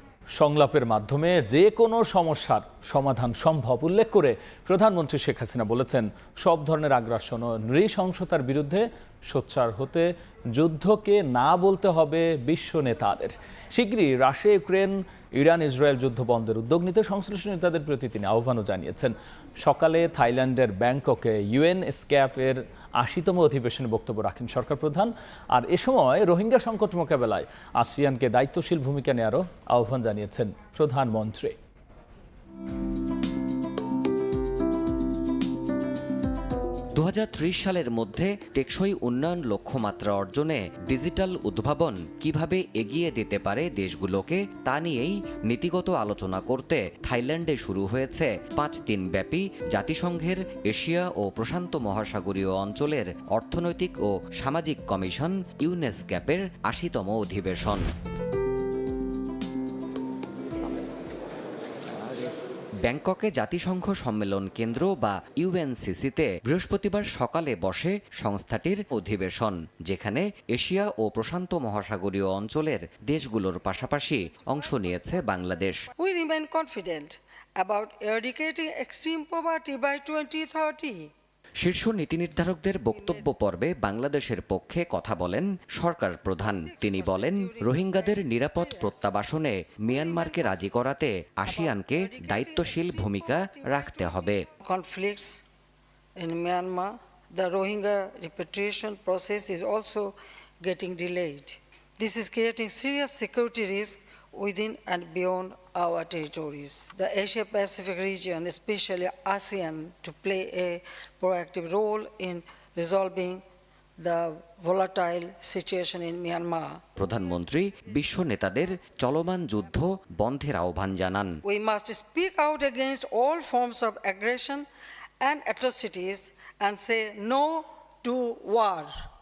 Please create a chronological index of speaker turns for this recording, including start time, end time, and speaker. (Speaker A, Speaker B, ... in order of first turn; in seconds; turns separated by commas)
Speaker A: 0.3-31.5, Speaker B: 37.0-57.9, Speaker B: 62.8-75.9, Speaker C: 76.0-81.1, Speaker B: 81.6-94.5, Speaker C: 82.9-83.2, Speaker C: 86.4-88.9, Speaker C: 89.9-90.6, Speaker C: 91.4-95.4, Speaker C: 96.2-113.4, Speaker C: 114.0-116.8, Speaker B: 117.0-121.4, Speaker C: 121.5-124.7, Speaker C: 125.2-129.1